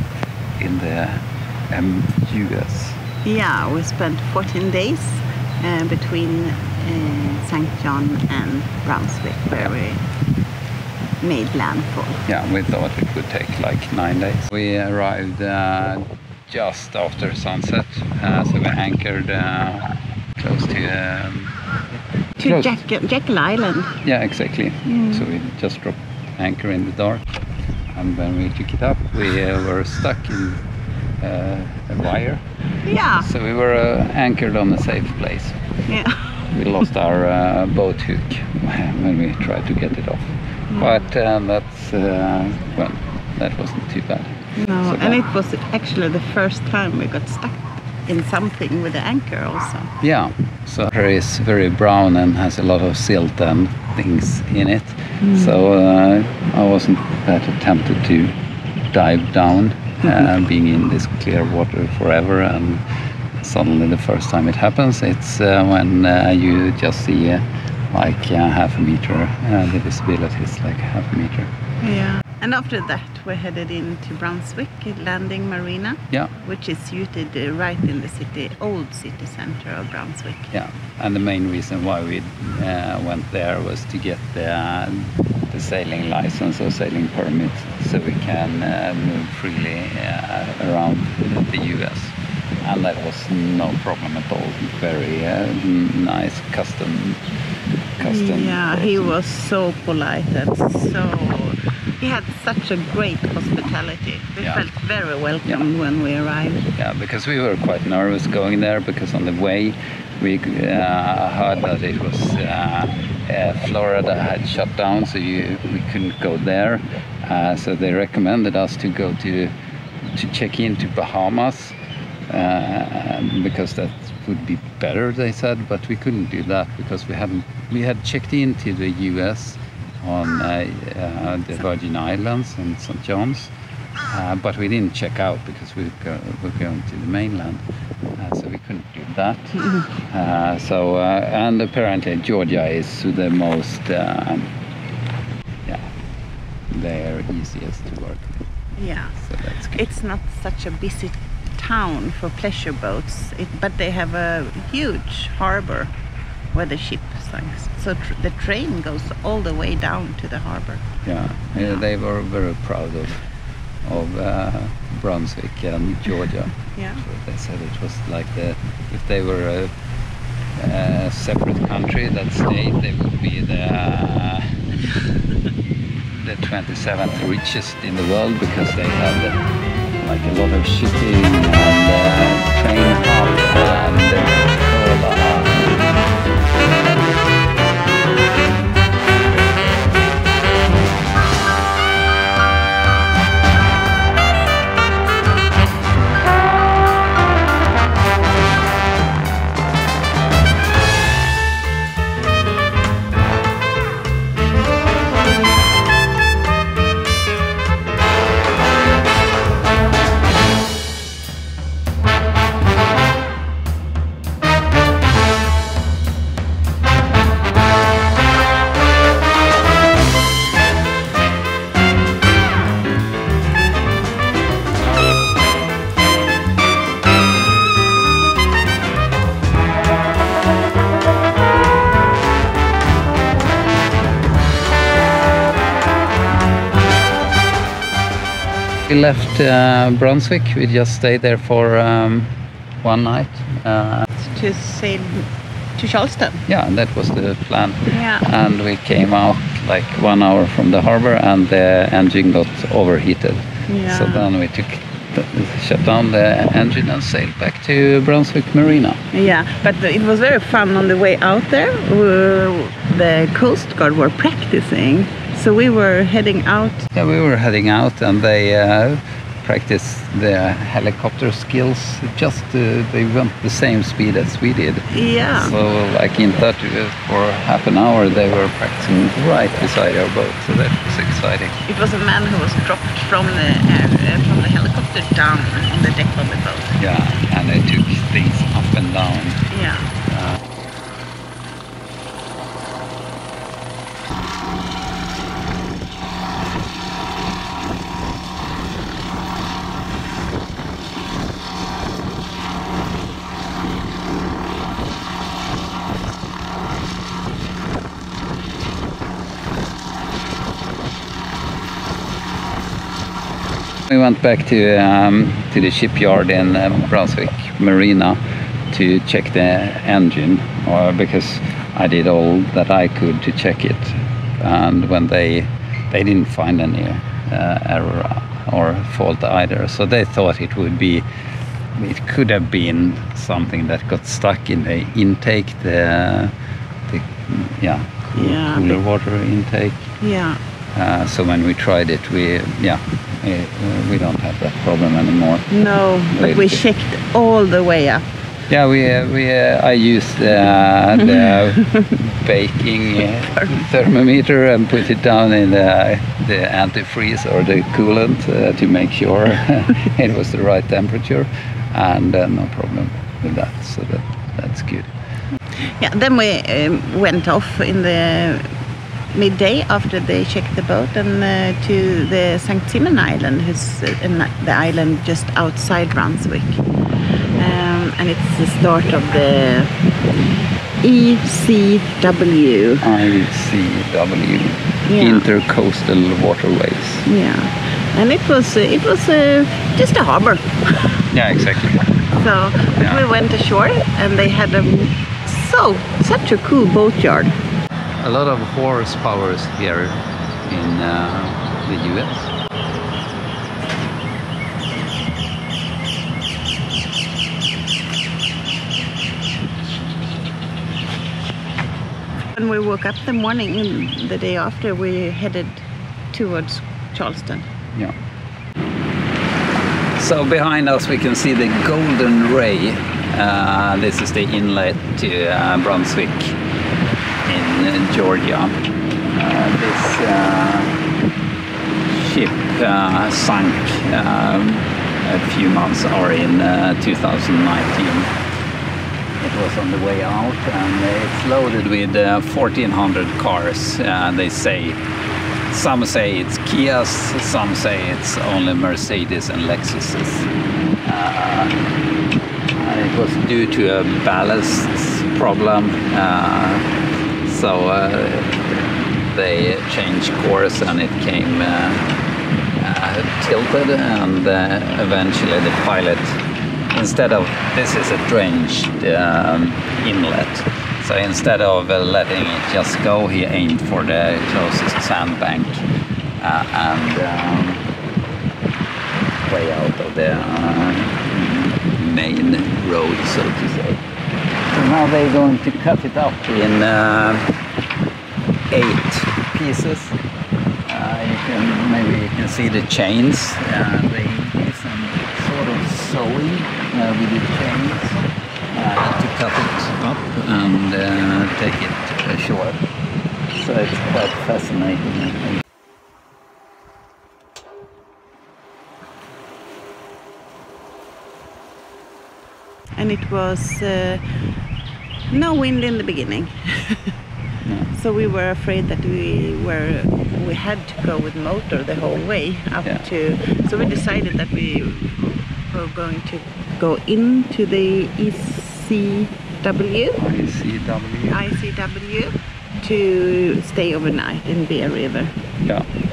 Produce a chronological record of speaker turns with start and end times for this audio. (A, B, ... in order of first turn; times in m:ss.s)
0:00.6-0:03.0 A
0:03.2-0:10.0 B
0:11.2-0:12.2 B
0:12.3-0:21.6 A
0:22.4-0:24.0 B
0:22.4-0:22.8 A
0:24.0-0:27.4 A
0:27.9-0:30.6 A
0:31.2-0:32.4 A
0:32.8-0:33.3 B
0:33.2-0:35.6 A
0:35.9-0:36.2 B
0:36.4-0:45.2 A
0:44.6-0:49.9 B
0:50.0-0:58.3 A
0:55.2-0:55.6 B
0:58.9-1:02.8 A
1:03.4-1:11.5 A
1:11.8-1:20.5 B
1:20.5-1:37.2 A
1:38.0-1:39.2 A
1:38.0-1:46.6 B
1:46.8-1:59.5 A
2:00.1-2:01.8 A
2:02.3-2:13.5 A
2:14.1-2:17.6 A
2:18.2-2:24.5 A
2:26.7-2:28.4 A
2:28.8-2:29.2 B
2:29.2-2:29.8 A
2:29.7-2:35.9 B
2:36.5-2:40.8 B
2:41.0-2:43.2 A
2:41.6-2:41.8 B
2:43.8-2:49.7 A
2:46.8-2:47.0 B
2:50.6-2:54.6 A
2:56.1-2:59.4 A
3:00.0-3:05.8 A
3:58.9-4:04.1 A
4:04.2-4:06.4 B
4:06.5-4:19.0 A
4:07.9-4:08.3 B
4:13.7-4:14.3 B
4:19.1-4:26.9 B
4:26.9-4:41.6 A
4:34.9-4:35.6 B
4:41.7-4:46.8 B
4:46.8-4:49.5 A
4:49.5-4:49.9 B
4:50.1-4:50.4 A
5:13.9-5:31.1 A
5:31.8-5:36.3 A
5:36.9-5:39.9 A
5:38.2-5:38.8 B
5:40.0-5:40.4 B
5:40.7-5:45.5 A
5:45.5-5:48.0 B
5:46.2-5:46.6 A
5:48.5-6:04.9 A
5:51.1-5:51.9 B
6:05.8-6:08.5 B
6:09.1-6:16.6 B
6:17.4-6:19.7 B
6:20.8-6:22.9 B
6:22.8-6:27.1 A
6:24.9-6:25.2 B
6:27.1-6:30.8 B
6:31.1-6:31.9 A
6:32.1-6:37.3 B
6:32.8-6:33.0 A
6:38.0-6:42.3 A
6:52.4-6:57.5 B
7:00.0-7:06.4 A
7:07.3-7:08.6 A
7:09.1-7:10.8 A
7:11.9-7:18.1 A
7:19.2-7:24.8 A
7:25.5-7:30.3 A
7:30.8-7:31.6 A
7:32.6-7:36.7 A
7:37.2-7:41.9 A
7:42.6-7:46.2 A
7:46.7-7:55.6 A
7:56.2-7:57.6 A
7:59.2-8:03.8 A
8:04.5-8:07.3 A
8:08.5-8:10.0 A
8:10.7-8:22.6 A
8:23.3-8:25.4 A
8:32.8-8:34.0 B
8:35.1-8:37.0 B
8:37.7-8:50.0 B
8:50.0-8:51.2 A
8:51.1-8:55.1 B